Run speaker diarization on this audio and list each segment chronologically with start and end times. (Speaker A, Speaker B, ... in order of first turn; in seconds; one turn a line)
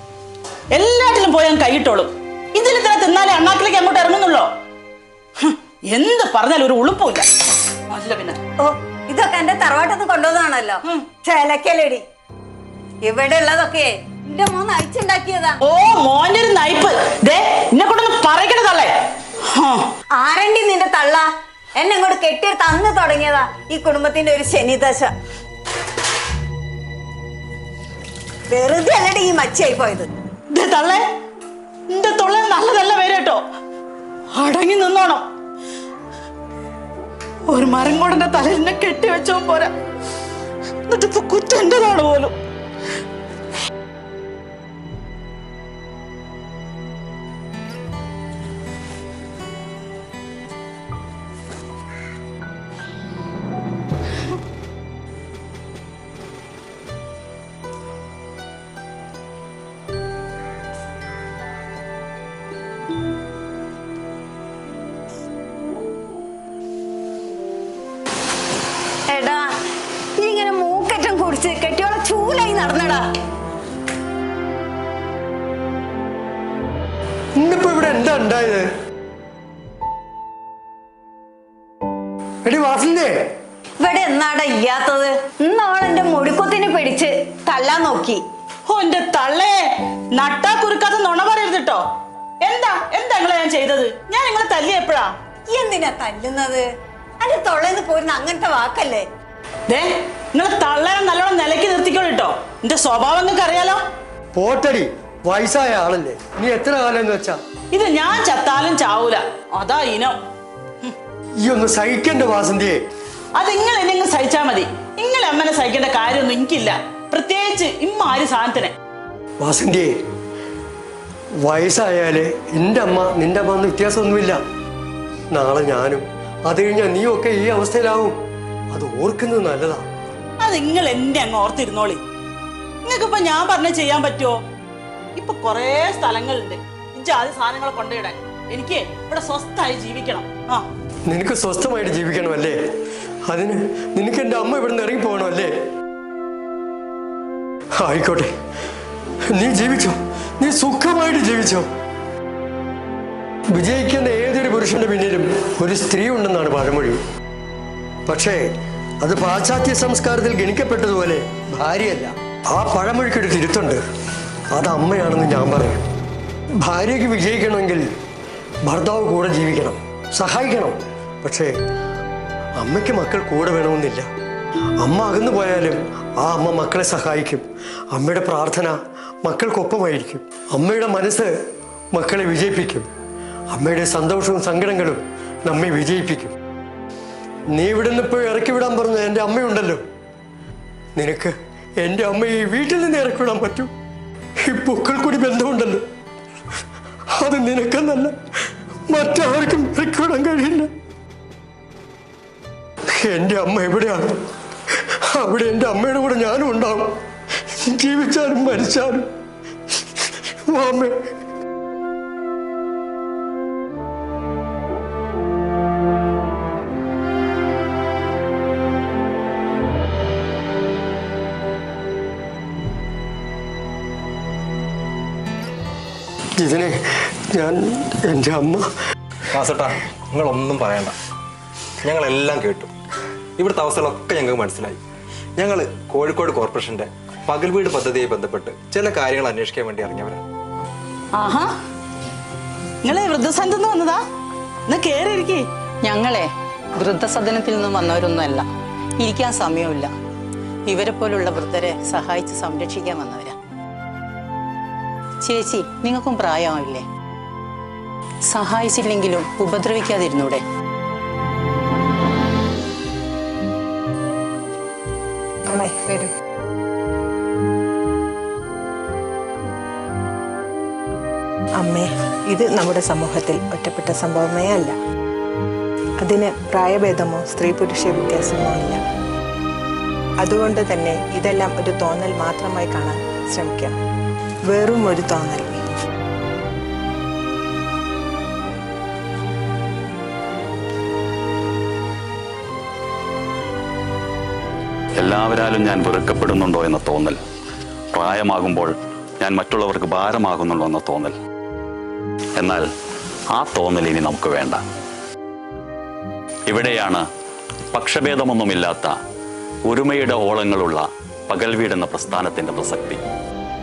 Speaker A: 0.7-4.5
Speaker A: 5.4-7.3
Speaker A: 7.9-8.4
Speaker B: 8.6-12.0
Speaker B: 13.0-15.6
Speaker A: 15.6-18.9
Speaker A: 19.5-19.9
Speaker B: 20.1-25.1
Speaker B: 28.5-30.1
Speaker A: 30.5-31.0
Speaker A: 31.9-33.4
Speaker A: 34.3-35.2
Speaker A: 37.5-39.7
Speaker A: 40.9-42.3
Speaker B: 69.1-69.5
Speaker B: 70.2-73.1
Speaker C: 77.4-78.7
Speaker C: 82.4-83.2
Speaker B: 83.8-88.2
Speaker A: 88.7-89.6
Speaker A: 90.1-91.8
Speaker A: 92.4-95.1
Speaker B: 95.5-96.7
Speaker B: 97.2-99.0
Speaker A: 99.7-103.8
Speaker C: 104.3-107.4
Speaker A: 107.7-110.2
Speaker C: 111.4-112.8
Speaker A: 113.3-118.7
Speaker C: 119.4-119.9
Speaker C: 121.4-124.4
Speaker C: 125.3-128.1
Speaker C: 128.7-129.8
Speaker A: 130.4-132.0
Speaker A: 132.8-134.4
Speaker A: 135.2-140.7
Speaker C: 141.1-142.6
Speaker C: 143.3-145.5
Speaker C: 147.8-148.3
Speaker C: 149.3-151.7
Speaker C: 153.5-157.0
Speaker C: 158.1-158.4
Speaker C: 159.0-163.8
Speaker C: 164.5-165.8
Speaker C: 166.6-167.8
Speaker C: 168.7-171.5
Speaker C: 172.6-174.1
Speaker C: 174.8-181.3
Speaker C: 181.9-182.9
Speaker C: 183.5-186.3
Speaker C: 187.5-189.8
Speaker C: 190.9-193.7
Speaker C: 194.5-195.8
Speaker C: 197.2-198.1
Speaker C: 198.9-200.7
Speaker C: 203.0-204.1
Speaker C: 205.1-206.9
Speaker C: 207.7-209.1
Speaker C: 210.5-211.0
Speaker C: 226.4-228.7
Speaker D: 229.3-230.9
Speaker D: 231.8-232.7
Speaker D: 233.4-234.8
Speaker D: 235.4-240.2
Speaker A: 241.1-241.5
Speaker A: 242.8-244.0
Speaker A: 244.7-245.4
Speaker E: 245.8-248.4
Speaker E: 249.0-249.9
Speaker E: 250.7-253.3
Speaker E: 255.2-256.9
Speaker E: 258.3-260.4
Speaker F: 265.5-266.1
Speaker F: 271.6-274.8
Speaker F: 276.0-278.8
Speaker F: 280.2-283.8
Speaker F: 284.4-285.6
Speaker G: 295.0-297.2
Speaker G: 297.9-301.1
Speaker G: 302.4-302.6
Speaker G: 303.3-304.6
Speaker G: 306.5-307.0
Speaker G: 307.7-308.9
Speaker G: 309.7-313.0